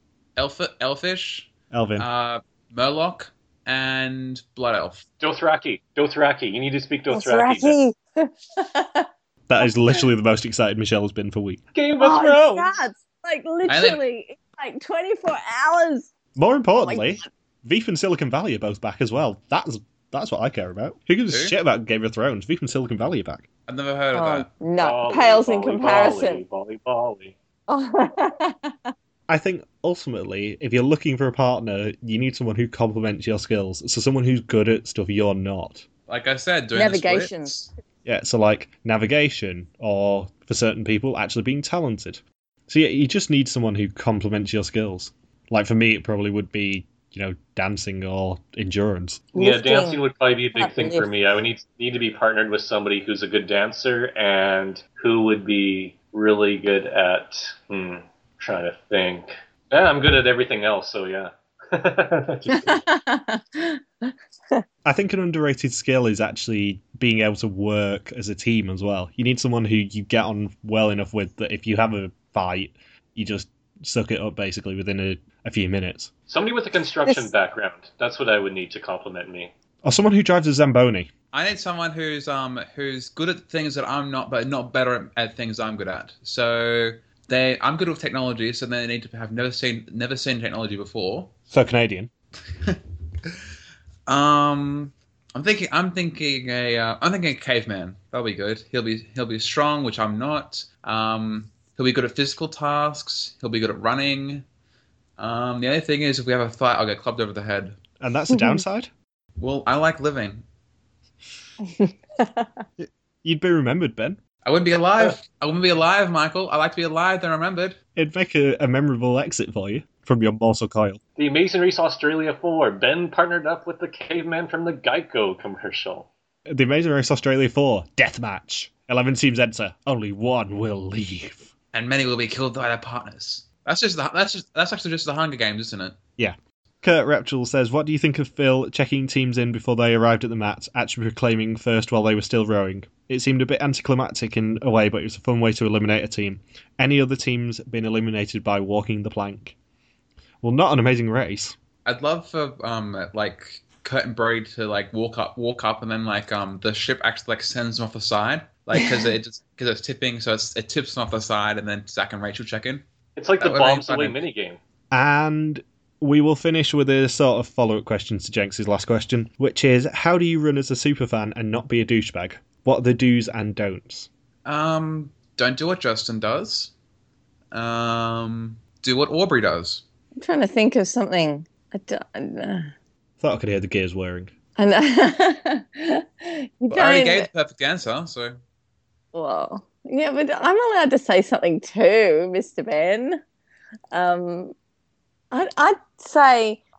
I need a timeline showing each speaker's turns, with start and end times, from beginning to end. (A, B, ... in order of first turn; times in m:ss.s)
0:00.4-0:05.1 A
0:01.7-0:02.1 B
0:05.2-0:07.8 C
0:07.1-0:09.1 D
0:09.5-0:11.6 B
0:09.6-0:10.0 D
0:11.7-0:12.8 C
0:12.0-0:16.1 D
0:13.7-0:14.0 A
0:16.3-0:23.4 B
0:16.8-0:17.3 D
0:21.3-0:21.6 A
0:23.7-0:24.5 A
0:24.1-0:26.4 D
0:24.8-0:27.4 C
0:27.7-0:28.9 D
0:29.3-0:35.9 B
0:36.1-0:37.7 A
0:36.7-0:37.5 D
0:38.0-0:49.2 B
0:49.3-0:50.0 D
0:49.3-1:02.8 C
0:50.6-0:51.1 D
1:02.5-1:04.6 D
1:04.8-1:16.1 B
1:16.3-1:19.5 C
1:19.8-1:21.1 B
1:21.3-1:31.3 A
1:31.5-1:32.1 B
1:32.6-1:33.3 A
1:34.1-1:44.4 A
1:45.2-1:47.8 A
1:48.0-1:48.9 B
1:48.3-1:48.6 D
1:49.4-1:50.4 A
1:51.7-1:52.6 D
1:52.8-1:54.2 B
1:54.4-1:57.8 A
1:58.0-2:01.0 B
2:01.2-2:06.1 C
2:06.5-2:11.5 B
2:11.7-2:15.9 A
2:16.2-2:29.6 B
2:30.4-2:31.6 B
2:31.8-2:42.8 A
2:43.2-2:44.6 C
2:43.4-2:44.2 A
2:44.9-2:54.1 B
2:54.4-2:56.7 A
2:57.5-2:59.8 A
3:00.2-3:02.7 D
3:03.2-3:04.3 B
3:04.6-3:07.3 D
3:06.7-3:08.4 A
3:09.1-3:13.2 D
3:13.9-3:14.5 D
3:15.3-3:16.6 D